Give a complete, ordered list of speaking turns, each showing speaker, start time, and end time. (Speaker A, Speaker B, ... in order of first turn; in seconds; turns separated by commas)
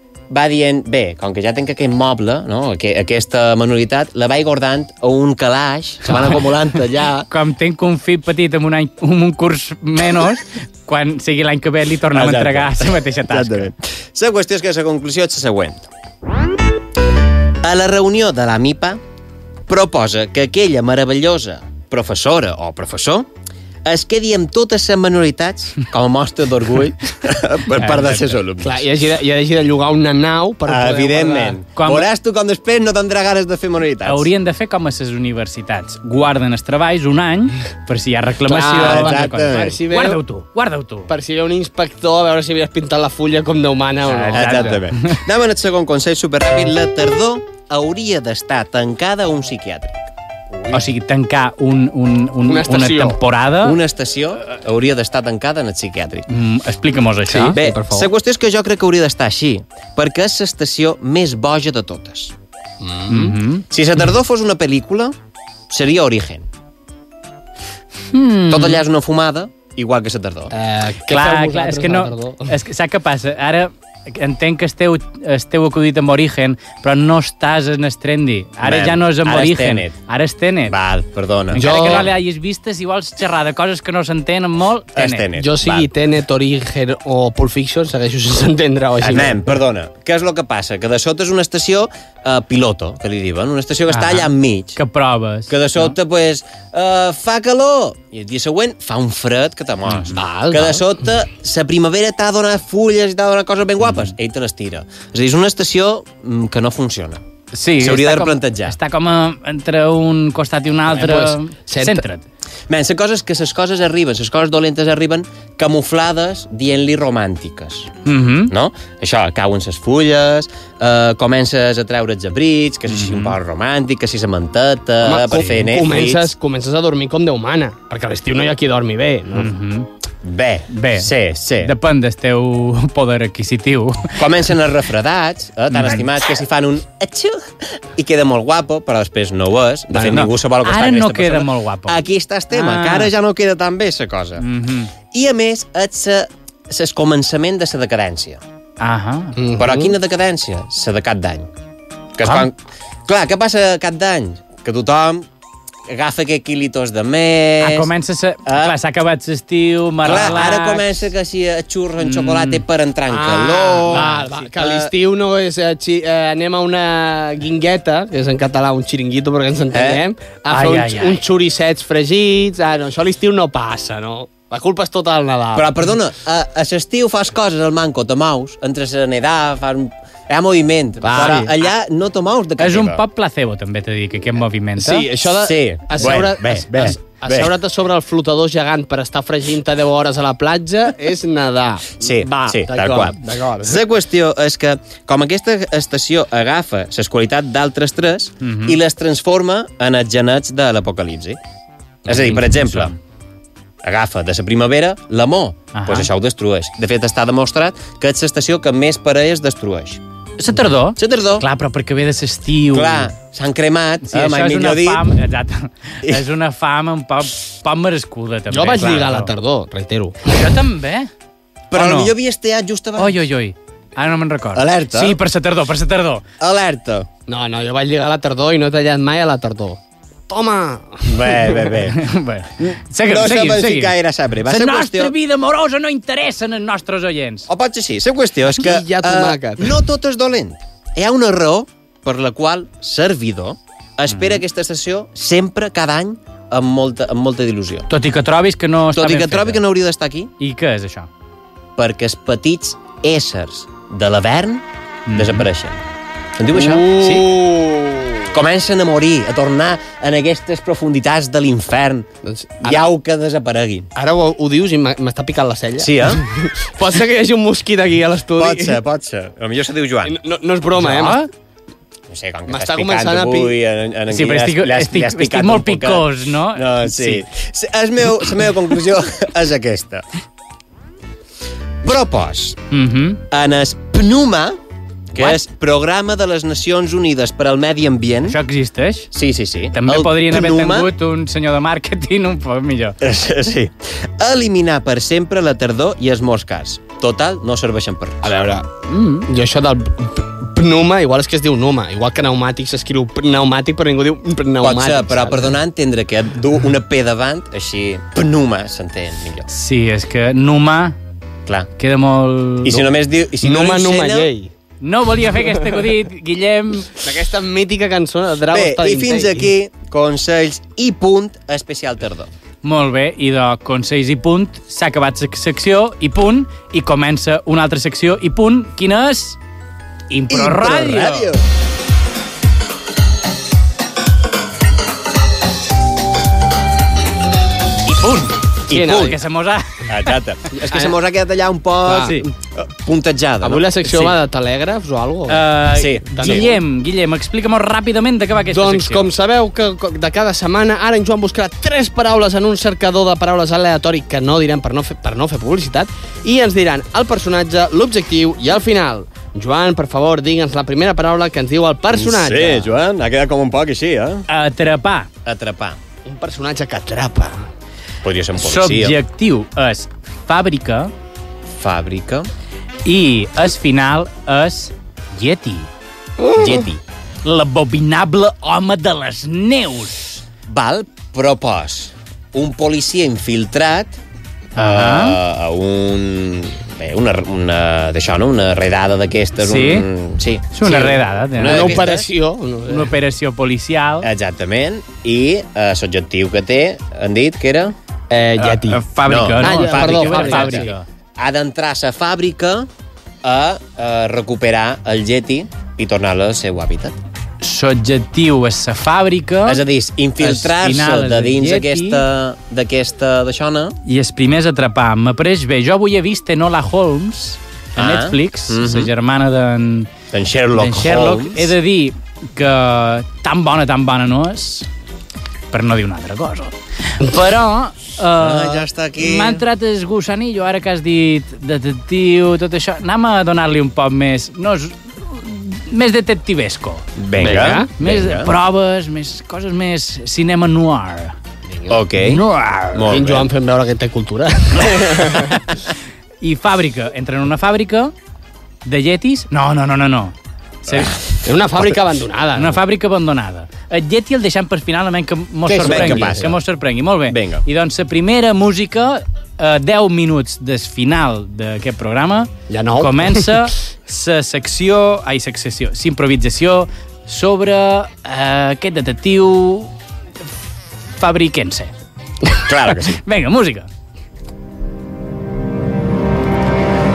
Speaker A: 0.3-7.3, Speaker B: 6.1-6.4, Speaker B: 7.3-13.7, Speaker A: 12.1-15.9, Speaker A: 17.6-19.0, Speaker A: 19.7-23.3, Speaker A: 23.9-28.9, Speaker B: 27.8-28.3, Speaker C: 28.6-31.6, Speaker A: 30.7-34.3, Speaker B: 31.8-32.1, Speaker B: 34.0-41.1, Speaker C: 38.5-40.2, Speaker A: 38.5-39.8, Speaker C: 41.1-44.8, Speaker B: 44.1-45.2, Speaker A: 44.3-50.1, Speaker B: 50.7-53.8, Speaker C: 52.5-53.2, Speaker A: 53.6-56.3, Speaker B: 56.3-57.6, Speaker C: 57.3-58.1, Speaker A: 57.5-62.3, Speaker C: 62.8-63.4, Speaker B: 63.1-63.6, Speaker A: 63.7-65.2, Speaker A: 65.7-66.5, Speaker B: 68.1-68.8, Speaker A: 68.5-70.5, Speaker C: 70.5-72.5, Speaker B: 71.1-80.8, Speaker A: 78.6-80.0, Speaker A: 80.7-82.0, Speaker B: 81.5-85.3, Speaker C: 81.5-82.1, Speaker A: 85.0-85.9, Speaker C: 85.4-89.4, Speaker A: 89.0-94.8, Speaker B: 93.9-95.9, Speaker A: 95.5-107.2, Speaker B: 99.9-100.2, Speaker C: 100.1-100.8, Speaker B: 107.5-112.2, Speaker A: 107.8-108.8, Speaker C: 110.9-112.0, Speaker A: 112.7-117.9, Speaker B: 118.0-118.5, Speaker A: 118.5-126.3, Speaker B: 122.9-123.3, Speaker C: 125.0-129.5, Speaker B: 129.4-129.9, Speaker A: 130.2-131.7, Speaker B: 130.7-134.2, Speaker A: 134.2-144.4, Speaker B: 135.7-136.1, Speaker C: 139.9-140.3, Speaker B: 140.1-143.1, Speaker B: 144.4-144.9, Speaker A: 145.1-148.4, Speaker B: 148.8-149.4, Speaker C: 149.4-149.9, Speaker A: 149.6-151.5, Speaker A: 152.2-155.3, Speaker A: 155.9-157.9, Speaker B: 157.6-161.0, Speaker A: 158.5-158.8, Speaker A: 160.0-164.9, Speaker B: 162.0-162.6, Speaker C: 163.1-175.8, Speaker B: 163.9-164.3, Speaker A: 169.7-170.0, Speaker B: 170.5-171.2, Speaker A: 175.5-183.0, Speaker C: 181.0-181.5, Speaker B: 181.2-181.5, Speaker B: 182.6-185.1, Speaker C: 184.8-193.8, Speaker A: 185.3-187.6, Speaker A: 192.0-201.4, Speaker B: 198.4-198.8, Speaker A: 202.1-202.9, Speaker B: 202.1-203.0, Speaker A: 203.8-210.0, Speaker B: 205.7-206.1, Speaker B: 210.4-213.1, Speaker A: 211.0-211.5, Speaker A: 212.7-215.1, Speaker B: 214.1-219.3, Speaker C: 218.5-220.4, Speaker B: 220.3-221.1, Speaker A: 221.7-223.2, Speaker B: 221.7-222.1, Speaker B: 223.0-226.2, Speaker A: 224.6-225.2, Speaker A: 226.4-227.1, Speaker C: 227.3-231.7, Speaker A: 231.1-232.0, Speaker B: 231.9-237.5, Speaker A: 232.6-235.1, Speaker A: 237.5-247.9, Speaker C: 238.6-239.8, Speaker B: 244.1-244.4, Speaker B: 247.9-249.6, Speaker A: 248.9-250.3, Speaker B: 250.4-251.1, Speaker A: 251.8-255.8, Speaker B: 255.1-255.5, Speaker A: 256.4-257.2, Speaker C: 256.5-258.3, Speaker A: 258.3-262.1, Speaker C: 262.2-262.9, Speaker A: 262.6-263.9, Speaker C: 264.0-268.8, Speaker A: 265.8-266.2, Speaker A: 268.4-270.2, Speaker C: 270.1-271.2, Speaker B: 270.8-271.3, Speaker A: 272.1-280.1, Speaker C: 272.5-273.6, Speaker B: 274.1-277.2, Speaker A: 281.8-282.6, Speaker B: 282.7-283.2, Speaker A: 283.3-284.6, Speaker A: 285.1-288.4, Speaker B: 288.3-289.1, Speaker A: 289.1-290.9, Speaker B: 289.7-293.0, Speaker A: 293.0-298.3, Speaker C: 298.2-305.5, Speaker A: 304.6-309.5, Speaker B: 309.5-311.0, Speaker B: 311.8-312.9, Speaker A: 312.6-314.3, Speaker C: 313.4-314.5, Speaker B: 314.8-317.0, Speaker C: 317.0-319.5, Speaker A: 318.5-322.3, Speaker B: 322.6-329.4, Speaker B: 330.1-331.3, Speaker A: 330.3-331.4, Speaker B: 337.9-340.1, Speaker A: 338.7-339.2, Speaker C: 338.7-339.2, Speaker A: 339.9-343.7, Speaker C: 340.6-340.9, Speaker B: 341.9-342.3, Speaker C: 343.4-345.5, Speaker B: 343.9-344.1, Speaker B: 345.3-349.1, Speaker A: 345.7-346.5, Speaker C: 346.1-346.5, Speaker C: 348.5-362.7, Speaker A: 361.9-364.3, Speaker B: 364.3-365.1, Speaker A: 365.2-365.8, Speaker C: 366.1-367.5, Speaker A: 368.0-369.0, Speaker B: 368.4-370.9, Speaker A: 371.6-372.3, Speaker B: 372.9-375.7, Speaker C: 376.2-376.6, Speaker A: 376.4-376.8, Speaker B: 377.2-380.2, Speaker A: 380.5-384.0, Speaker B: 384.6-385.2, Speaker A: 384.6-390.8, Speaker B: 389.4-389.9, Speaker B: 390.5-391.9, Speaker C: 390.6-392.9, Speaker A: 391.4-392.1, Speaker B: 392.7-394.1, Speaker A: 394.0-397.8, Speaker C: 398.1-398.8, Speaker B: 398.4-400.9, Speaker A: 399.1-402.7, Speaker C: 399.4-400.7, Speaker A: 403.2-407.0, Speaker B: 407.4-409.6, Speaker A: 409.4-413.8, Speaker B: 410.2-412.0, Speaker B: 413.9-419.9, Speaker A: 417.8-418.9, Speaker A: 420.1-421.5, Speaker B: 420.6-424.7, Speaker B: 425.5-441.2, Speaker A: 428.2-429.4, Speaker A: 437.0-438.3, Speaker C: 437.2-437.7, Speaker C: 441.5-441.8, Speaker A: 441.7-443.3, Speaker B: 442.0-442.9, Speaker C: 442.9-445.4, Speaker B: 446.2-447.9, Speaker B: 448.6-450.9, Speaker A: 450.7-451.8, Speaker C: 451.2-452.6, Speaker B: 452.4-469.7, Speaker A: 455.5-456.4, Speaker C: 455.5-456.3, Speaker A: 457.1-457.4, Speaker C: 462.5-463.3, Speaker B: 471.0-471.7, Speaker A: 472.4-473.0, Speaker B: 472.7-473.7